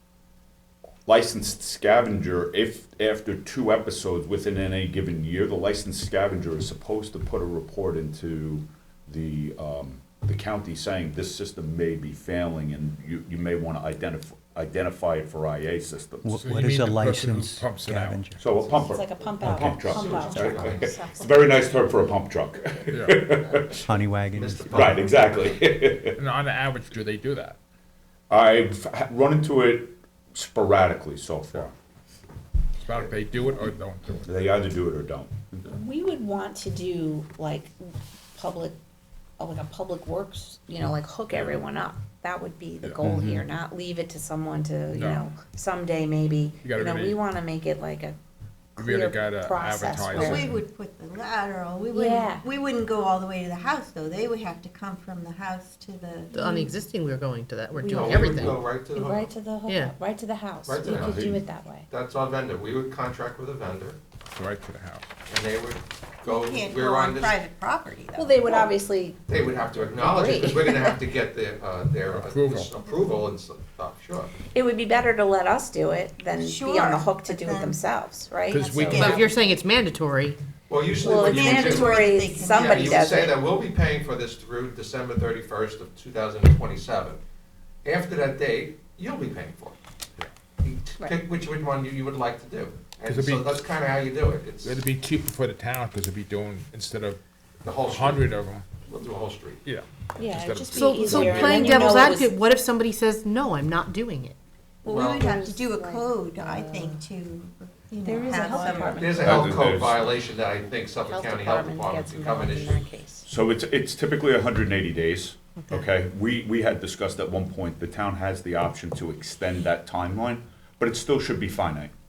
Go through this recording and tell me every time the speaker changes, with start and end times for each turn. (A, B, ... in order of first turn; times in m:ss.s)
0:01.1-0:16.4 A
0:16.2-0:18.4 B
0:16.3-0:18.3 C
0:18.4-0:23.8 A
0:18.7-0:21.3 D
0:19.4-0:19.8 B
0:19.9-0:20.9 E
0:22.9-0:23.4 C
0:23.9-0:24.8 B
0:24.3-0:25.5 E
0:24.7-0:25.0 C
0:24.8-0:26.2 A
0:26.2-0:27.6 C
0:28.3-0:31.7 A
0:32.8-0:34.3 C
0:34.3-0:35.7 A
0:35.7-0:37.8 D
0:38.4-0:38.8 D
0:39.4-0:48.2 D
0:41.3-0:41.6 C
0:43.0-0:43.4 B
0:44.9-0:45.3 C
0:46.6-0:47.2 C
0:48.8-0:50.5 D
0:48.8-0:50.6 C
0:50.1-0:56.7 F
0:51.9-0:52.4 D
0:56.3-0:58.5 G
0:57.8-1:01.9 D
0:57.9-0:59.3 E
0:58.2-0:58.5 C
0:59.7-1:00.0 G
1:00.7-1:01.2 E
1:00.8-1:01.4 A
1:01.9-1:04.0 E
1:04.3-1:05.0 C
1:05.3-1:07.4 E
1:06.2-1:08.6 F
1:08.2-1:09.2 D
1:09.3-1:14.3 E
1:10.0-1:11.0 D
1:12.1-1:12.7 C
1:14.5-1:19.2 D
1:16.3-1:17.8 F
1:18.5-1:19.1 C
1:18.6-1:19.3 F
1:19.0-1:20.4 G
1:20.7-1:27.2 E
1:21.0-1:23.4 D
1:21.0-1:23.0 F
1:27.8-1:29.8 E
1:30.6-1:34.8 E
1:33.1-1:33.6 C
1:34.6-1:37.2 C
1:37.6-1:38.3 E
1:37.8-1:38.7 C
1:38.8-1:39.6 E
1:39.6-1:42.1 C
1:40.2-1:42.4 D
1:40.7-1:44.4 G
1:44.8-1:49.0 F
1:44.9-1:45.3 E
1:45.0-1:47.0 D
1:48.0-1:49.7 D
1:49.0-1:52.8 E
1:49.1-1:50.0 A
1:51.1-1:53.3 D
1:53.2-2:01.9 A
1:55.6-1:55.9 G